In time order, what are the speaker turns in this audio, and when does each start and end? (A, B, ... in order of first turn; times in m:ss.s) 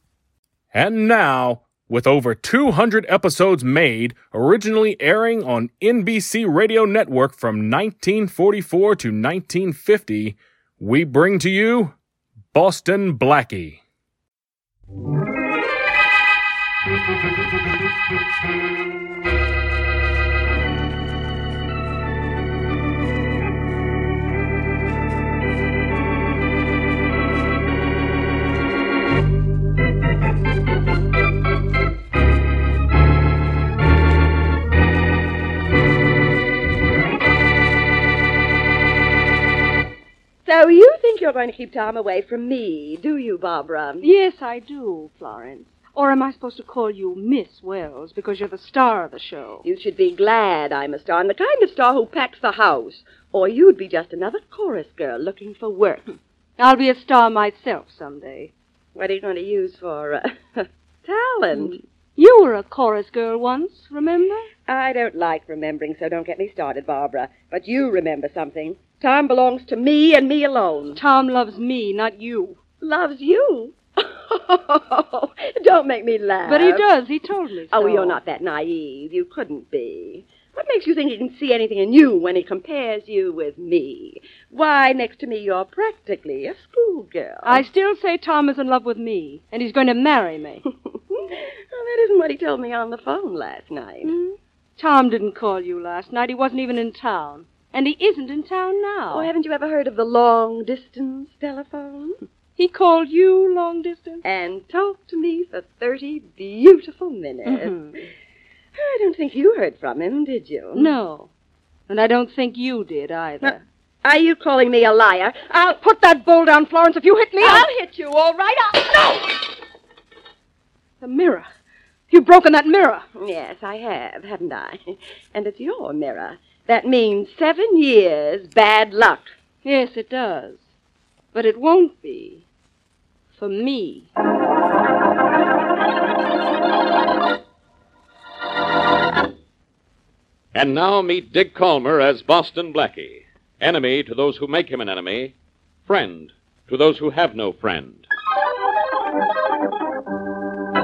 0:00.7-0:11.9 A
0:12.5-0:13.8 A
0:40.5-0:44.1 B
0:44.0-0:49.7 C
0:49.6-0:56.2 B
0:56.6-0:58.5 C
0:59.0-1:01.8 B
1:01.5-1:04.5 C
1:04.7-1:11.0 B
1:11.0-1:12.6 C
1:12.8-1:16.9 B
1:16.4-1:18.2 C
1:17.7-1:27.6 B
1:27.4-1:30.6 C
1:31.1-1:34.1 B
1:34.0-1:39.3 C
1:39.1-1:42.2 B
1:42.6-1:44.2 C
1:44.2-1:47.8 B
1:47.5-1:48.0 C
1:48.8-1:50.9 B
1:50.7-1:51.3 C
1:51.9-1:53.6 C
1:53.4-1:55.7 B
1:55.7-1:57.7 C
1:57.4-1:59.4 B
2:01.0-2:01.5 C
2:02.1-2:03.0 C
2:03.2-2:09.3 B
2:09.6-2:10.7 C
2:11.3-2:12.4 C
2:13.3-2:14.1 C
2:20.5-2:25.3 D
2:25.9-2:28.1 D